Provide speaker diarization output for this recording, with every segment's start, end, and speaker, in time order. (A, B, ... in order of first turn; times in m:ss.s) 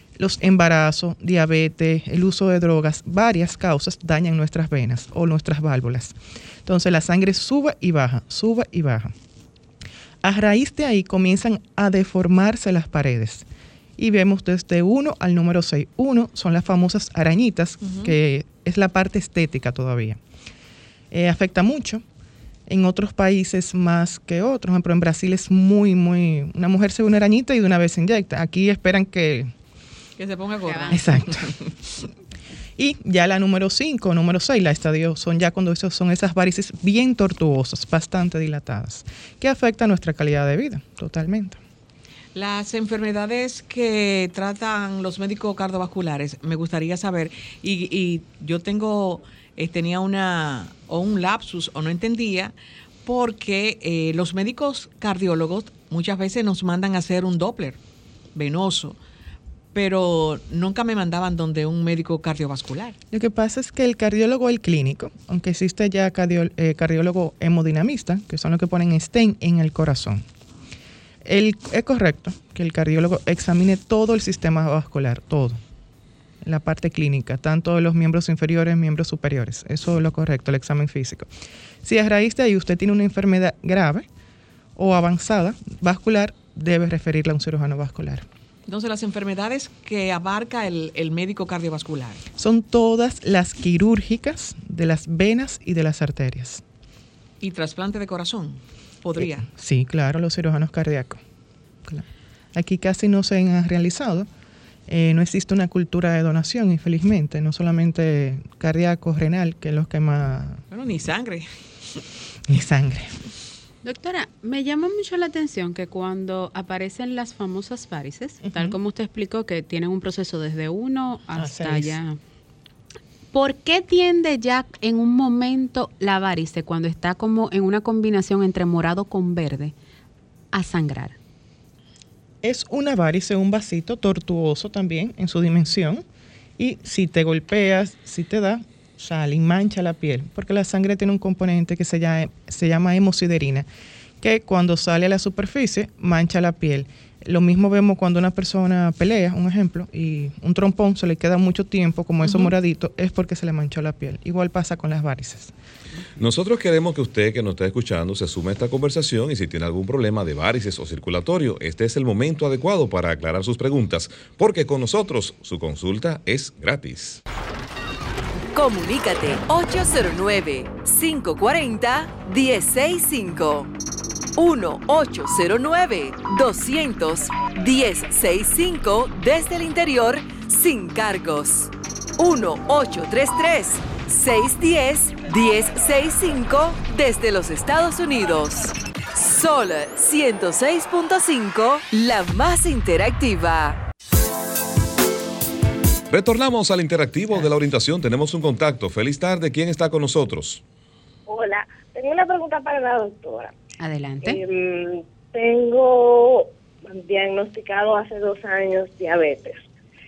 0:00.2-0:06.1 A
0:06.6-0:09.1 A
0:10.2-0:13.4 A
0:14.0-0:20.2 A
0:17.8-0:18.2 B
0:21.1-0:22.0 A
0:22.7-0:29.5 A
0:30.2-0:31.4 B
0:30.6-0:31.0 C
0:30.9-0:31.6 A
0:32.8-0:41.6 A
0:42.3-0:52.5 B
0:53.0-0:57.8 B
0:58.3-0:59.0 B
0:59.7-1:03.0 B
1:03.1-1:10.2 A
1:11.2-1:15.6 A
1:16.4-1:21.3 A
1:21.8-1:24.0 A
1:24.8-1:28.2 A
1:28.7-1:32.2 B
1:32.4-1:36.6 A
1:37.4-1:39.5 B
1:39.2-1:41.2 A
1:41.8-1:44.3 A
1:44.9-1:50.6 A
1:50.7-1:51.4 B
1:52.5-1:53.1 A
1:53.8-2:02.2 C
1:58.4-1:58.8 A
2:01.3-2:02.0 A
2:03.3-2:09.7 C
2:10.5-2:11.2 C
2:12.4-2:16.0 A
2:16.6-2:23.7 A
2:24.2-2:35.5 A
2:32.2-2:32.5 B
2:36.2-2:47.2 D
2:48.5-2:53.7 E
2:54.4-3:13.8 E
3:16.1-3:20.6 D
3:21.3-3:23.5 F
3:23.8-3:24.4 C
3:24.2-3:29.6 F